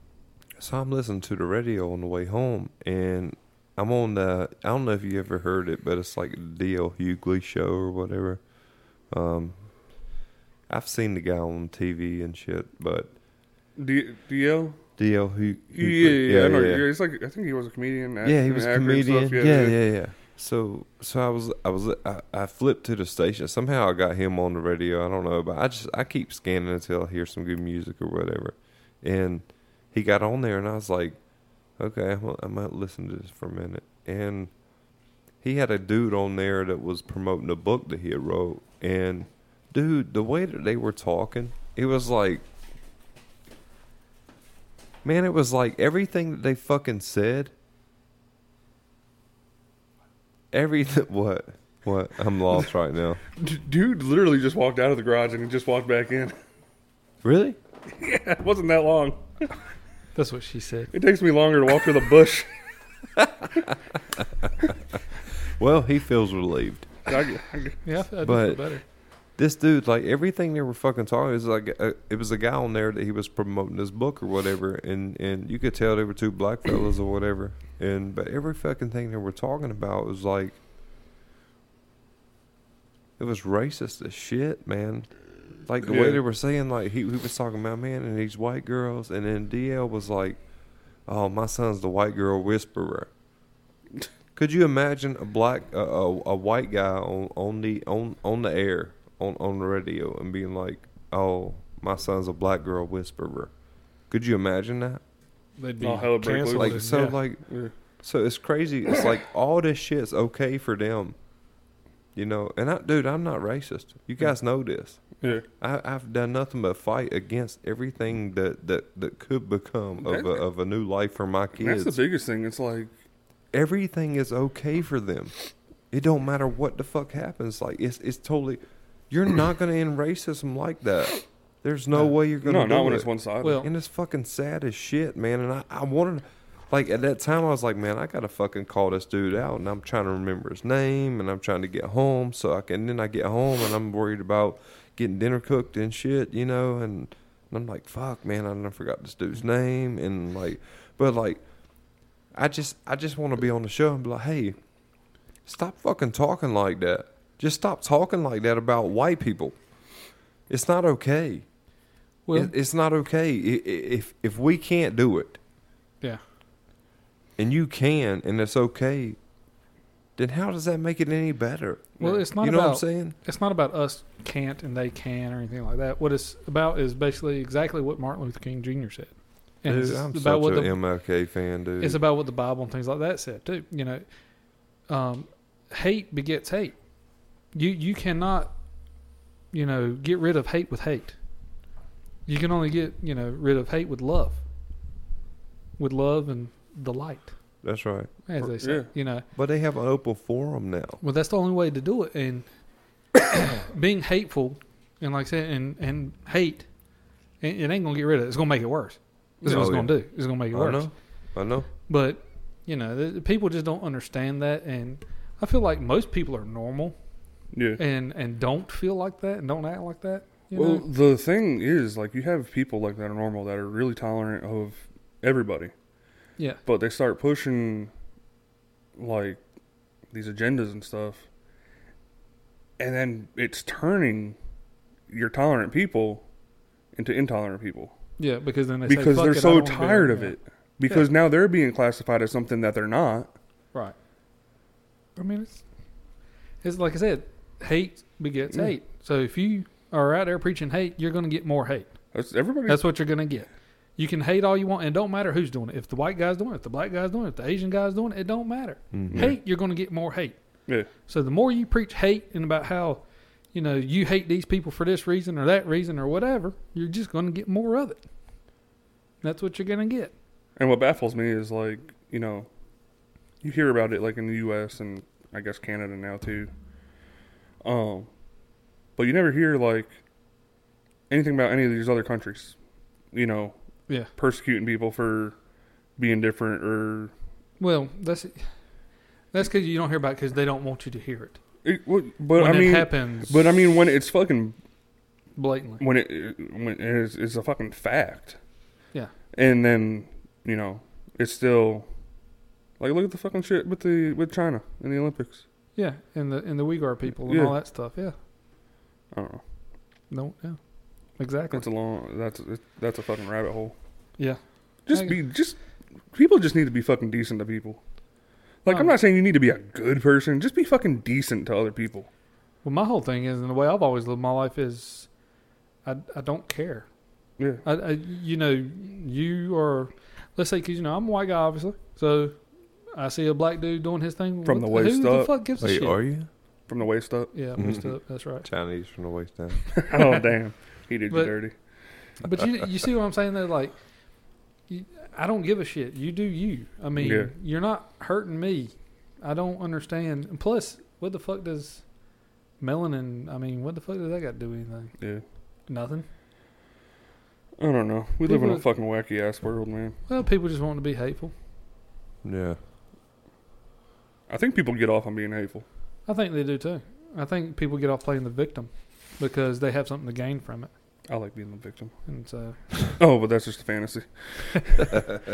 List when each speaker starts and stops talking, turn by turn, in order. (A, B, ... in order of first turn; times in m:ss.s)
0:00.6-0:08.4 A
0:09.1-0:09.6 A
0:10.7-0:13.1 A
0:13.8-0:14.8 B
0:15.0-0:16.8 A
0:15.7-0:19.8 B
0:18.2-0:31.2 A
0:31.8-0:34.5 A
0:35.4-0:42.4 A
0:45.0-0:47.5 A
0:50.5-0:53.2 A
0:53.4-0:56.3 B
0:57.2-0:57.6 A
0:58.0-0:59.5 B
1:00.1-1:00.9 C
1:00.9-1:02.5 B
1:03.2-1:03.7 A
1:05.4-1:07.1 A
1:07.1-1:07.8 B
1:07.8-1:08.8 C
1:08.2-1:08.7 A
1:09.4-1:20.6 A
1:23.2-1:25.1 A
1:25.6-1:30.4 A
1:25.8-1:26.2 B
1:31.1-1:33.1 A
1:34.4-1:43.5 A
1:44.1-1:45.0 A
1:45.6-1:47.2 C
1:45.8-1:47.7 B
1:46.5-1:47.4 A
1:48.0-1:51.1 A
1:52.1-1:55.0 A
1:55.6-2:02.0 A
2:00.0-2:00.4 B
2:01.6-2:02.9 B
2:03.5-2:05.3 A
2:05.9-2:13.1 A
2:12.4-2:13.6 B
2:13.4-2:13.7 C
2:13.6-2:31.4 A
2:32.3-2:34.6 A
2:35.4-2:39.6 A
2:40.5-2:41.4 A
2:42.2-2:42.5 C
2:42.3-2:45.4 A
2:47.4-2:49.2 A
2:50.2-2:53.1 A
2:52.0-2:52.2 B
2:52.0-3:00.7 C
2:59.6-3:02.0 A
3:01.8-3:04.0 C
3:04.9-3:06.8 C
3:07.5-3:08.5 C
3:09.5-3:11.2 C
3:12.2-3:14.4 C
3:15.8-3:17.3 C
3:17.6-3:18.1 A
3:18.3-3:19.2 C
3:18.4-3:18.9 B
3:19.3-3:21.0 A
3:21.0-3:22.5 C
3:23.3-3:26.7 C
3:27.4-3:30.9 C
3:29.4-3:29.7 B
3:29.4-3:31.7 A
3:31.9-3:37.0 C
3:37.5-3:37.8 B
3:37.8-3:40.8 C
3:40.5-3:45.7 B
3:46.6-3:47.9 B
3:49.0-3:49.4 B
3:50.1-3:51.3 B
3:52.8-3:54.4 B
3:55.1-3:56.2 B
3:56.9-3:57.9 B
3:58.2-4:00.4 C
3:58.9-4:03.3 B
4:05.2-4:05.6 C
4:06.6-4:11.9 C
4:12.1-4:12.9 B
4:12.7-4:20.4 C
4:18.9-4:19.3 A
4:19.1-4:19.4 B
4:21.1-4:23.0 C
4:23.5-4:28.0 C
4:29.2-4:30.1 C
4:30.6-4:32.5 B
4:33.4-4:36.5 B
4:37.6-4:38.1 B
4:39.0-4:39.9 B
4:41.1-4:42.5 B
4:43.1-4:43.5 B
4:44.1-4:45.3 B
4:46.0-4:47.1 B
4:47.6-4:48.4 C
4:49.3-4:51.4 C
4:51.6-4:54.6 B
4:52.4-4:53.5 C
4:55.4-4:55.8 C
4:55.8-4:58.4 B
4:59.3-5:01.8 B
5:02.8-5:05.4 B
5:05.8-5:08.2 C
5:07.2-5:07.5 B
5:09.1-5:09.4 B
5:10.1-5:10.6 C
5:11.2-5:11.6 C
5:11.5-5:13.7 B
5:14.2-5:15.2 C
5:14.9-5:15.6 B
5:16.1-5:17.8 B
5:18.6-5:22.1 B
5:18.7-5:18.9 C
5:22.6-5:25.1 C
5:25.8-5:26.8 C
5:27.4-5:27.6 B
5:27.6-5:32.4 C
5:32.9-5:36.0 C
5:34.4-5:35.3 B
5:35.6-5:36.3 A
5:36.7-5:37.3 B
5:37.3-5:38.4 C
5:37.6-5:39.7 A
5:39.8-5:41.5 B
5:39.9-5:40.2 C
5:41.1-5:41.4 C
5:42.2-5:43.7 C
5:44.7-5:51.8 C
5:47.0-5:47.3 B
5:52.6-5:54.9 C
5:55.7-5:56.0 C
5:57.6-6:00.0 B
5:58.2-5:58.6 C
6:00.1-6:01.3 C
6:02.2-6:02.6 A
6:04.3-6:05.6 B
6:06.0-6:10.7 C
6:11.1-6:11.9 B
6:12.1-6:13.0 C
6:13.0-6:15.0 B
6:14.6-6:15.0 C